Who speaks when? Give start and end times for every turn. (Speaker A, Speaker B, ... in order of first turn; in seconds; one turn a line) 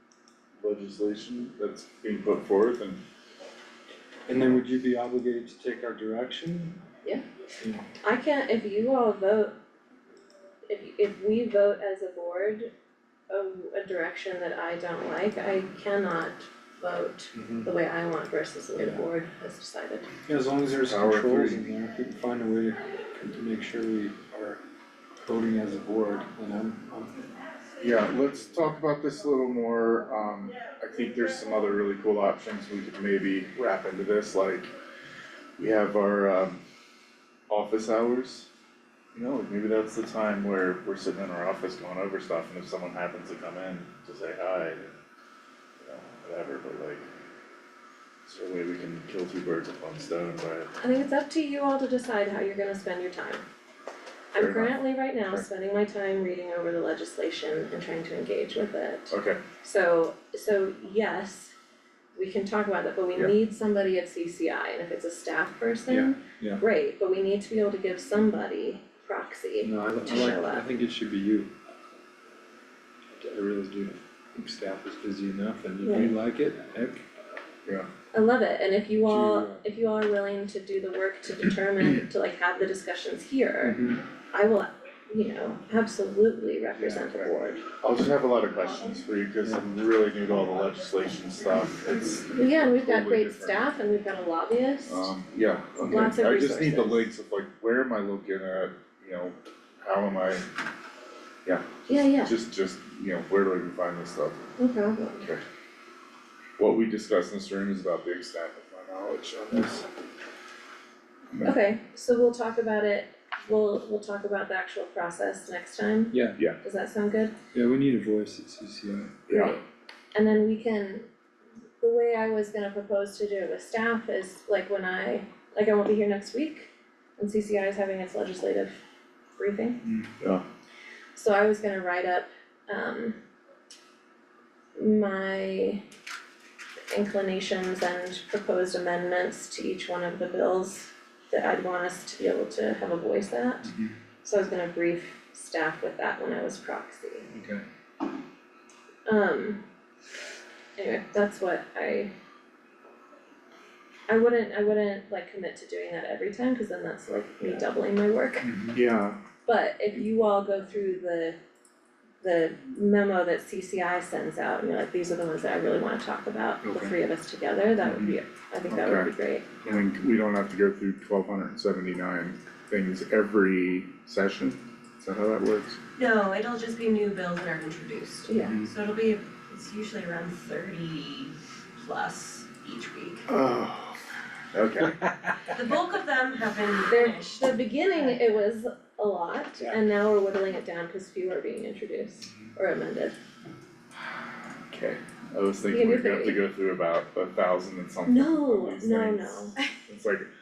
Speaker A: 0.6-3.0
Speaker B: 4.3-6.8
Speaker C: 8.0-9.5
Speaker C: 10.7-12.7
Speaker C: 13.3-20.1
Speaker B: 17.3-17.7
Speaker B: 18.8-19.1
Speaker B: 20.2-24.6
Speaker A: 20.8-21.6
Speaker B: 25.2-27.1
Speaker A: 27.8-34.7
Speaker A: 35.6-36.6
Speaker A: 37.5-38.5
Speaker A: 39.1-44.9
Speaker A: 45.8-47.0
Speaker A: 48.2-50.7
Speaker C: 50.8-53.4
Speaker C: 54.3-61.5
Speaker A: 54.4-54.7
Speaker A: 59.1-59.4
Speaker C: 62.1-70.7
Speaker B: 65.9-66.6
Speaker B: 69.6-71.5
Speaker B: 73.2-77.0
Speaker C: 75.8-76.1
Speaker C: 78.1-87.6
Speaker B: 79.0-79.6
Speaker B: 83.6-84.0
Speaker A: 86.8-93.7
Speaker D: 90.5-92.3
Speaker C: 92.3-95.1
Speaker A: 94.9-100.5
Speaker C: 95.8-97.1
Speaker C: 101.9-102.3
Speaker A: 102.2-104.4
Speaker C: 104.6-105.2
Speaker A: 105.2-105.4
Speaker A: 106.6-109.8
Speaker C: 111.4-117.3
Speaker B: 116.1-116.4
Speaker B: 117.5-119.1
Speaker A: 119.3-119.6
Speaker C: 119.3-119.6
Speaker C: 120.1-121.1
Speaker C: 121.8-128.8
Speaker C: 129.4-129.8
Speaker B: 129.8-130.1
Speaker C: 131.2-133.2
Speaker C: 134.8-135.8
Speaker C: 136.9-143.7
Speaker B: 143.6-143.9
Speaker C: 144.2-147.3
Speaker B: 147.3-147.6
Speaker C: 149.1-149.6
Speaker C: 150.8-152.1
Speaker C: 154.1-158.5
Speaker B: 158.4-158.8
Speaker A: 158.7-159.2
Speaker C: 159.4-161.4
Speaker C: 162.2-169.5
Speaker B: 166.6-166.9
Speaker A: 168.7-169.1
Speaker A: 169.6-175.8
Speaker D: 175.9-183.3
Speaker C: 178.3-178.6
Speaker B: 178.4-178.7
Speaker A: 183.3-184.0
Speaker A: 184.5-185.0
Speaker D: 185.5-188.4
Speaker C: 186.9-193.2
Speaker A: 194.7-200.3
Speaker C: 195.7-196.4
Speaker C: 198.0-199.6